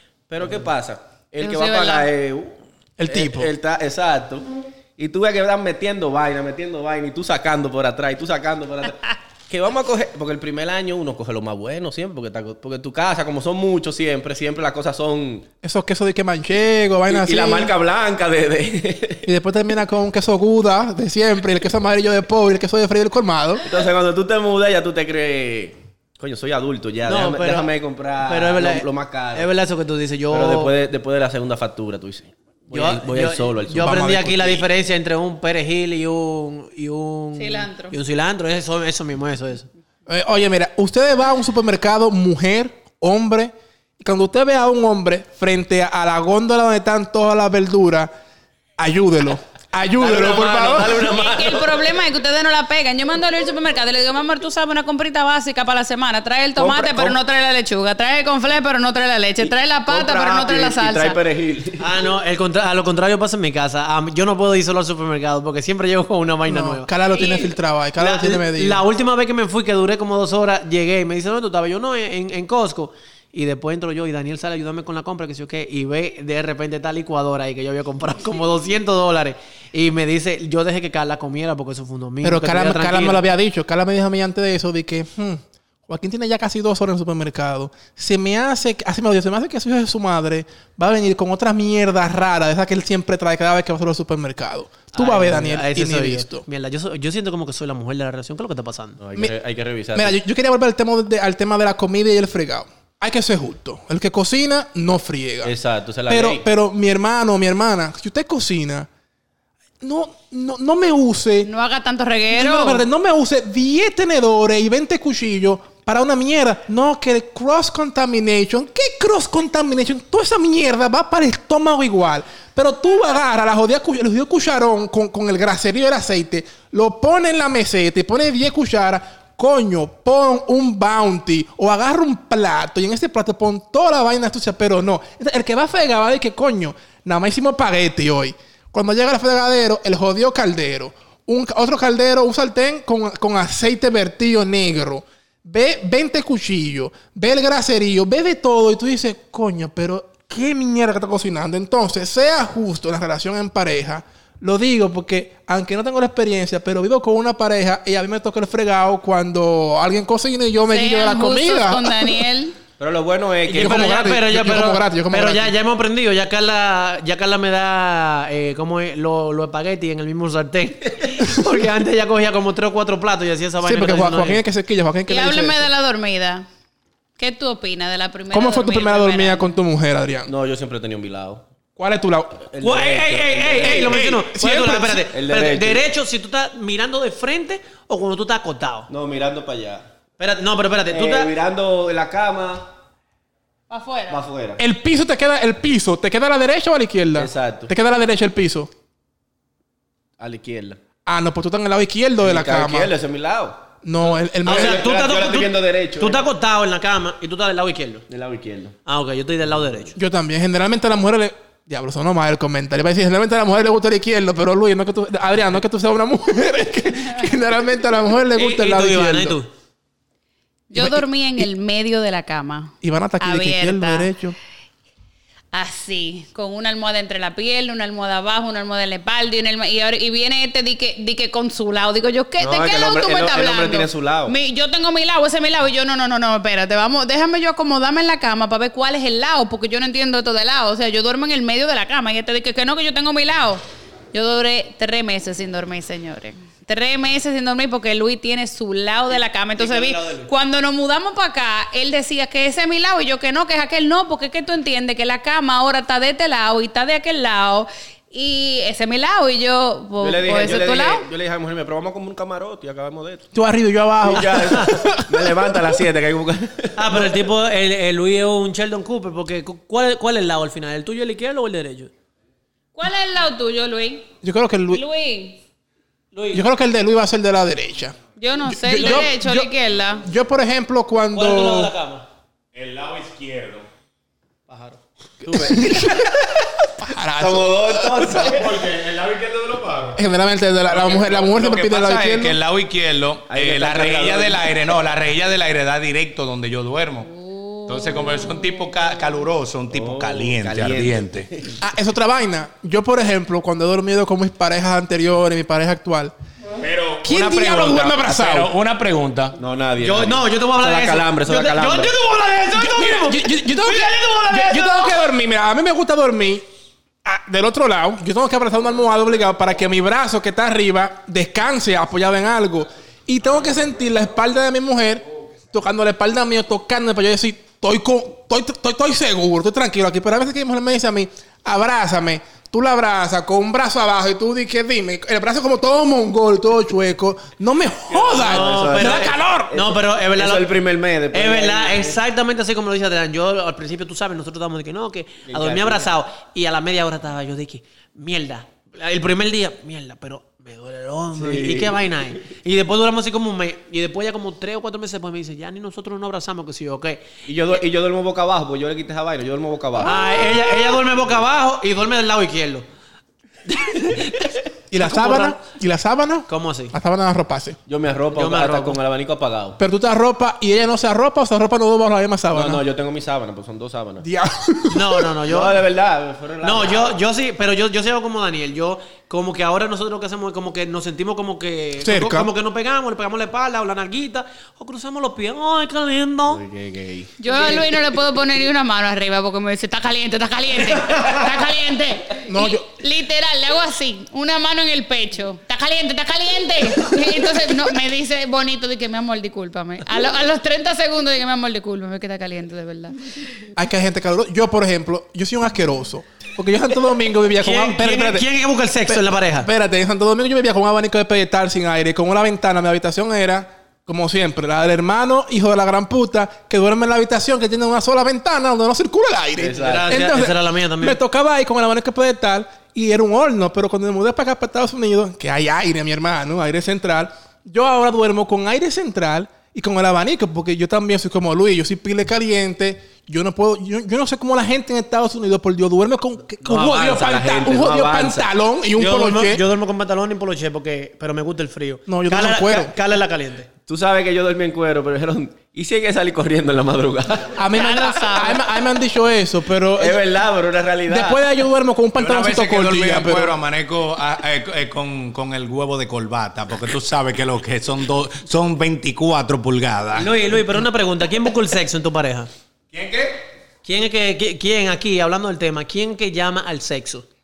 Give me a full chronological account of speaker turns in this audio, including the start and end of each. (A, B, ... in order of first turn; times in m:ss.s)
0:00.3-0:15.5 A
0:01.4-0:02.1 B
0:03.0-0:03.5 C
0:15.6-0:17.7 C
0:17.1-0:19.3 A
0:19.2-0:23.6 C
0:23.6-0:29.5 A
0:27.1-0:27.7 D
0:28.2-0:30.7 D
0:30.3-0:34.6 A
0:32.7-0:39.7 D
0:33.7-0:34.6 C
0:37.4-0:37.9 B
0:40.1-0:48.1 C
0:48.8-0:51.0 C
0:50.0-0:51.8 A
0:51.0-1:01.2 B
0:56.6-0:57.2 A
0:59.9-1:01.9 A
1:01.8-1:07.3 D
1:06.5-1:08.8 C
1:07.2-1:07.5 B
1:08.0-1:23.2 D
1:22.2-1:36.4 C
1:34.9-1:39.0 D
1:39.0-1:40.2 A
1:39.9-1:45.5 C
1:45.4-1:46.4 A
1:46.1-1:48.9 C
1:49.8-1:51.5 C
1:51.4-1:52.8 B
1:52.3-2:42.3 C
2:40.7-2:42.6 B
2:42.8-2:43.9 A
2:43.5-2:54.4 D
2:43.5-2:45.5 C
2:53.6-2:55.7 C
2:55.1-2:56.5 B
2:57.2-2:59.6 B
2:58.3-3:00.3 C
3:00.3-3:01.4 A
3:01.8-3:02.4 C
3:02.5-3:04.1 A
3:02.6-3:08.9 D
3:03.6-3:05.1 C
3:05.1-3:05.8 A
3:08.9-3:09.9 A
3:10.2-3:11.3 D
3:10.9-3:12.7 A
3:13.7-3:14.2 B
3:14.1-3:14.6 A
3:14.6-3:18.7 C
3:17.2-3:17.7 A
3:20.2-3:20.8 A
3:21.1-3:22.9 C
3:22.2-3:23.6 A
3:23.8-3:24.8 C
3:24.4-3:26.3 A
3:24.4-3:28.0 D
3:28.1-3:28.8 A
3:28.9-3:30.0 D
3:30.0-3:39.4 C
3:38.4-3:39.5 D
3:40.7-3:44.1 B
3:40.8-3:41.5 C
3:42.8-3:44.4 C
3:45.5-4:03.6 B
3:52.4-3:54.4 A
4:04.1-4:21.0 B
4:09.6-4:10.3 D
4:20.0-4:23.3 A
4:23.3-4:25.6 C
4:24.0-4:27.1 A
4:26.8-4:31.9 D
4:32.8-4:34.1 B
4:34.2-4:34.8 C
4:34.7-4:35.4 B
4:36.1-4:36.4 D
4:36.3-4:38.0 C
4:38.2-4:40.0 B
4:38.5-4:39.5 C
4:40.0-4:41.7 C
4:41.1-4:42.0 D
4:42.5-4:43.7 E
4:44.5-4:45.7 D
4:45.3-4:46.1 A
4:45.4-4:46.2 C
4:46.8-4:48.3 C
4:47.2-4:48.5 A
4:48.2-4:50.0 E
4:50.0-4:52.4 C
4:50.7-4:57.1 E
4:53.3-4:54.6 A
4:57.3-4:58.2 B
4:57.7-5:01.3 E
4:59.7-5:01.6 A
5:01.6-5:06.1 C
5:06.6-5:09.4 E
5:07.0-5:08.5 C
5:09.4-5:11.9 A
5:09.8-5:15.0 D
5:12.5-5:16.4 C
5:17.0-5:39.5 C
5:37.9-5:42.0 A
5:38.2-5:40.5 D
5:41.1-5:57.1 D
5:45.3-5:45.9 A
5:51.2-5:51.9 A
5:57.3-6:00.0 A
5:59.8-6:02.6 D
6:03.5-6:05.4 D
6:04.7-6:07.6 C
6:06.3-6:06.8 D
6:07.7-6:09.6 A
6:08.2-6:08.8 D
6:09.6-6:12.6 C
6:12.3-6:14.0 A
6:14.0-6:15.1 C
6:14.7-6:15.6 D
6:15.3-6:17.0 A
6:16.4-6:26.4 D
6:21.8-6:22.3 C
6:26.3-6:27.1 A
6:27.2-6:43.0 B
6:27.4-6:27.6 D
6:32.3-6:32.7 C
6:43.6-6:48.3 C
6:47.4-6:49.5 D
6:48.9-7:19.4 C
6:59.4-7:00.0 A
6:59.6-7:01.0 D
7:16.4-7:18.3 A
7:18.8-7:23.5 D
7:21.9-7:22.7 C
7:23.7-7:27.4 A
7:27.4-7:30.0 C
7:27.5-7:28.4 B
7:29.8-7:31.2 A
7:30.9-7:33.3 C
7:32.0-7:40.1 E
7:40.0-7:42.3 D
7:42.7-7:43.2 E
7:43.6-7:47.1 D